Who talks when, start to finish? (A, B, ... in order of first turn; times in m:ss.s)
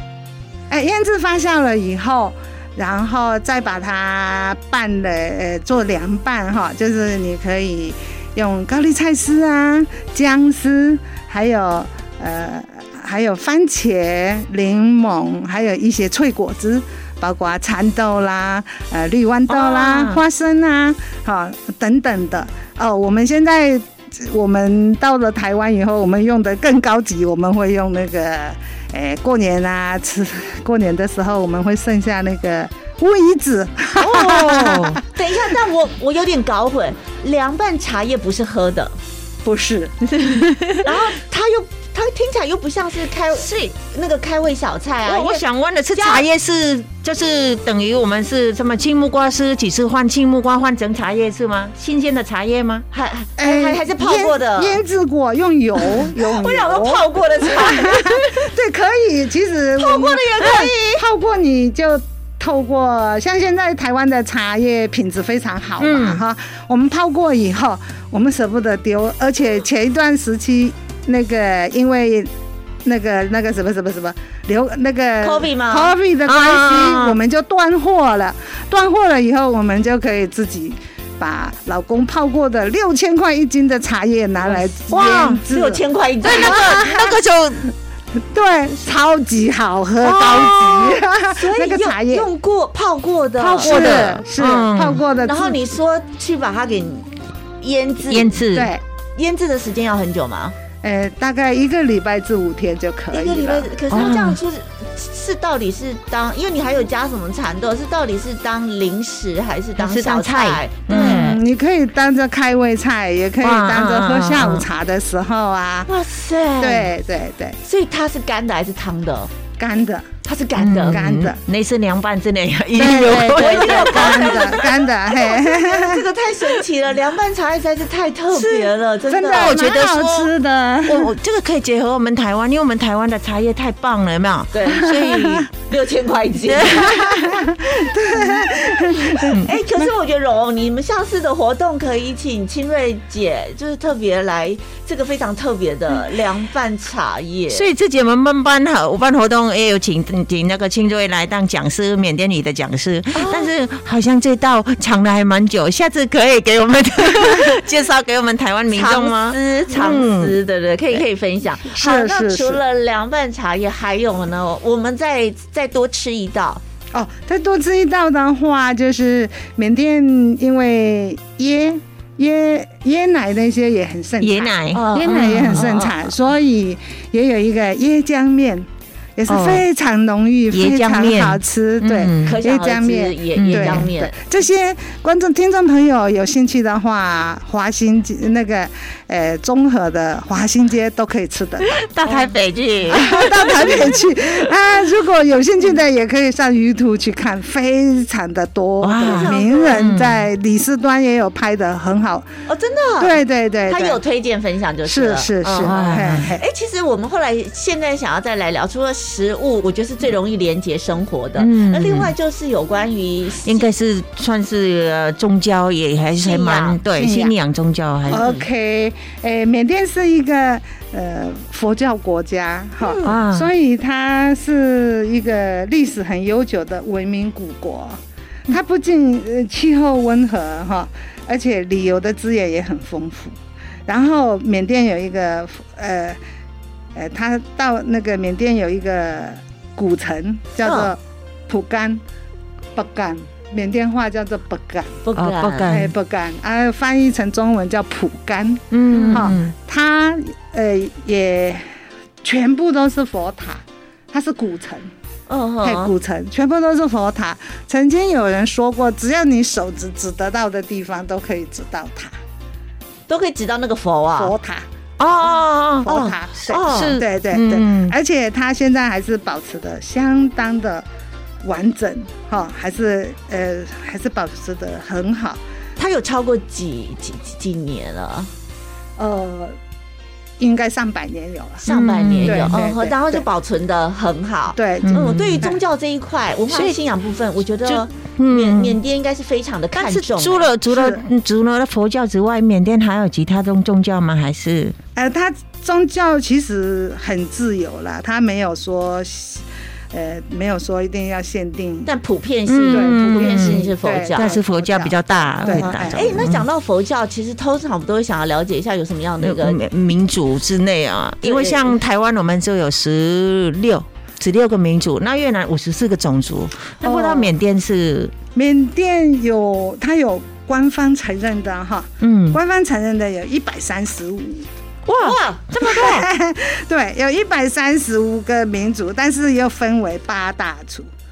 0:00.7-0:35.0 A
0:19.5-0:20.2 B
0:34.0-0:35.0 B
0:35.1-0:39.0 C
0:39.4-0:40.0 A
0:40.1-0:40.9 B
0:40.8-0:45.4 C
0:45.0-0:52.8 B
0:45.9-0:46.2 C
0:52.9-0:54.8 C
0:53.4-1:12.3 A
0:56.1-0:58.3 C
0:59.8-1:01.0 C
1:05.8-1:06.2 B
1:12.8-1:27.2 A
1:15.2-1:15.9 C
1:16.2-1:17.2 B
1:24.9-1:25.4 B
1:25.5-1:26.9 C
1:26.2-1:27.7 B
1:28.3-1:32.3 A
1:30.0-1:31.0 B
1:31.3-1:34.1 C
1:33.4-1:35.0 B
1:33.6-1:35.6 A
1:35.2-1:38.4 C
1:38.1-1:38.7 B
1:38.5-1:38.8 A
1:39.2-1:40.5 C
1:40.8-1:43.7 A
1:43.1-1:51.4 C
1:43.9-1:44.4 B
1:49.8-1:51.4 B
1:50.9-1:55.9 A
1:53.4-1:54.7 B
1:55.9-1:56.9 C
1:56.6-1:57.6 A
1:57.6-1:59.3 C
1:59.6-2:00.0 A
2:00.2-2:01.0 C
2:00.6-2:04.7 B
2:00.9-2:01.4 A
2:02.7-2:06.1 A
2:03.2-2:09.6 C
2:08.3-2:08.7 B
2:09.1-2:11.1 A
2:09.3-2:10.3 B
2:10.8-2:15.5 B
2:14.5-2:17.4 C
2:14.9-2:15.5 A
2:16.5-2:17.1 B
2:16.7-2:19.4 A
2:19.1-2:19.8 B
2:19.2-2:27.7 C
2:27.5-2:40.3 B
2:33.1-2:33.5 C
2:38.7-2:46.6 C
2:41.7-2:42.6 A
2:46.9-3:11.7 A
2:54.2-2:55.8 B
2:54.7-2:55.9 C
2:59.3-2:59.6 B
3:00.5-3:02.4 B
3:02.2-3:04.2 C
3:03.4-3:03.9 B
3:11.6-3:14.1 B
3:12.0-3:12.3 C
3:12.9-3:22.3 A
3:18.8-3:20.3 B
3:19.0-3:19.9 C
3:22.5-3:33.7 C
3:23.0-3:24.0 A
3:24.8-3:26.4 A
3:25.6-3:26.3 B
3:31.4-3:32.1 B
3:33.4-3:38.2 B
3:36.2-3:37.1 C
3:37.0-3:37.3 A
3:38.1-3:38.4 C
3:38.1-3:53.4 A
3:42.8-3:43.2 C
3:43.0-3:43.5 B
3:53.9-3:56.2 A
3:56.9-4:02.0 A
4:00.6-4:00.9 C
4:02.7-4:05.0 A
4:05.0-4:05.8 C
4:05.2-4:05.9 B
4:05.6-4:11.7 A
4:08.7-4:09.5 B
4:08.9-4:09.3 C
4:12.2-4:14.9 A
4:15.3-4:15.9 C
4:15.6-4:22.1 A
4:23.1-4:24.3 C
4:24.2-4:24.6 A
4:25.0-4:28.0 B
4:25.8-4:30.8 A
4:25.8-4:27.0 C
4:31.4-4:35.4 A
4:35.8-4:38.3 C
4:39.0-4:39.6 A
4:40.4-4:41.7 A
4:41.6-4:50.5 C
4:41.7-4:42.6 B
4:42.2-4:43.2 A
4:44.5-4:45.6 A
4:44.8-4:45.5 B
4:46.5-4:46.8 B
4:47.6-4:48.8 B
4:49.8-4:54.8 B
4:50.7-4:51.0 A
4:54.9-5:01.9 A
5:01.8-5:04.3 C
5:02.5-5:06.4 B
5:02.7-5:06.1 A
5:05.5-5:09.6 C
5:09.2-5:18.1 B
5:11.2-5:11.8 C
5:16.8-5:17.3 A
5:18.3-5:24.5 A
5:22.0-5:22.4 B
5:24.8-5:26.1 B
5:25.0-5:25.4 C
5:25.6-5:30.9 A